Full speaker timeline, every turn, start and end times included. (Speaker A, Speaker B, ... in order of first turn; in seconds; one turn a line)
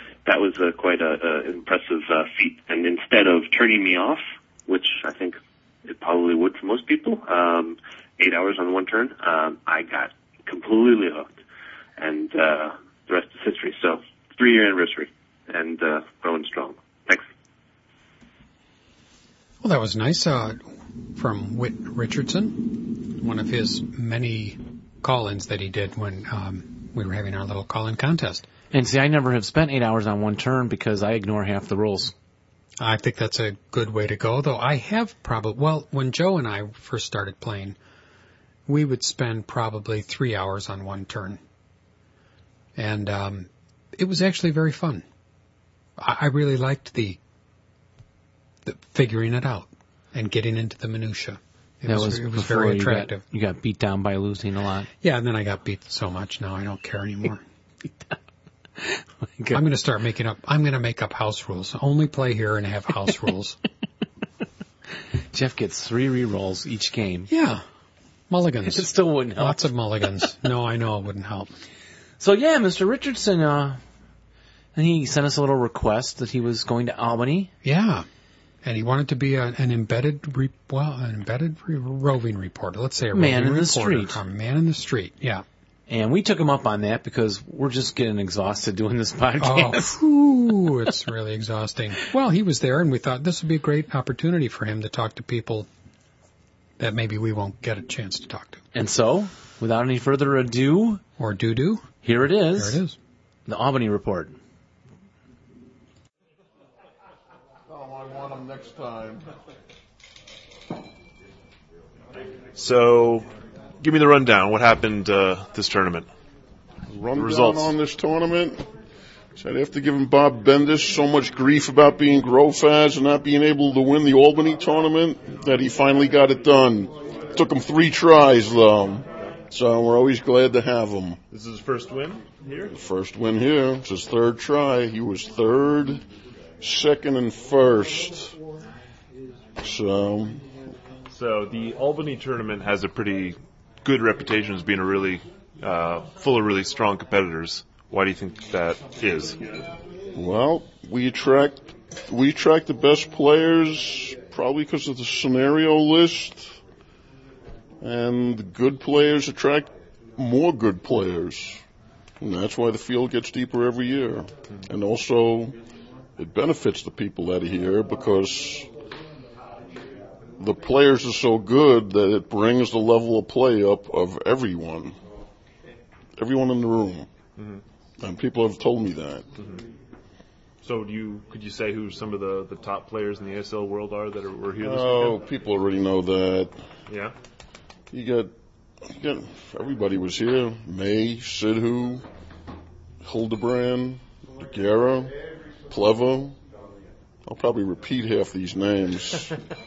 Speaker A: 0.2-11.4
Speaker A: 12.0-17.2
Speaker B: 19.6-20.6
Speaker B: 21.1-28.5
Speaker C: 28.7-32.1
Speaker B: 32.8-37.8
Speaker B: 38.7-41.4
Speaker B: 42.8-45.0
Speaker B: 46.0-47.2
Speaker B: 48.6-53.2
Speaker C: 51.9-54.9
Speaker B: 55.0-57.4
Speaker C: 58.8-59.6
Speaker B: 59.5-63.6
Speaker C: 65.3-67.3
Speaker B: 67.3-67.6
Speaker B: 68.3-71.5
Speaker C: 68.6-69.7
Speaker C: 72.2-73.8
Speaker C: 74.7-77.5
Speaker B: 77.6-78.0
Speaker B: 78.6-85.4
Speaker C: 83.1-84.2
Speaker C: 85.9-89.9
Speaker B: 89.4-95.7
Speaker B: 96.8-98.6
Speaker C: 98.7-101.0
Speaker B: 101.2-101.9
Speaker C: 102.0-102.8
Speaker B: 102.5-103.0
Speaker C: 103.5-104.4
Speaker D: 112.5-113.3
Speaker D: 113.8-116.1
Speaker E: 116.9-118.6
Speaker D: 117.1-117.8
Speaker E: 119.3-131.2
Speaker D: 131.3-132.7
Speaker E: 132.7-136.0
Speaker E: 136.6-138.3
Speaker E: 139.6-140.4
Speaker D: 141.1-149.4
Speaker E: 150.1-156.6
Speaker E: 157.8-161.6
Speaker E: 162.2-165.5
Speaker E: 166.2-168.7
Speaker E: 170.4-175.0
Speaker E: 176.2-177.1
Speaker D: 177.3-177.6
Speaker E: 178.0-179.2
Speaker D: 179.3-179.6
Speaker D: 180.6-185.3
Speaker E: 184.6-186.6
Speaker D: 186.9-187.2
Speaker E: 187.9-188.3
Speaker E: 188.8-192.0
Speaker E: 193.0-195.2
Speaker E: 195.7-196.4
Speaker E: 197.2-199.3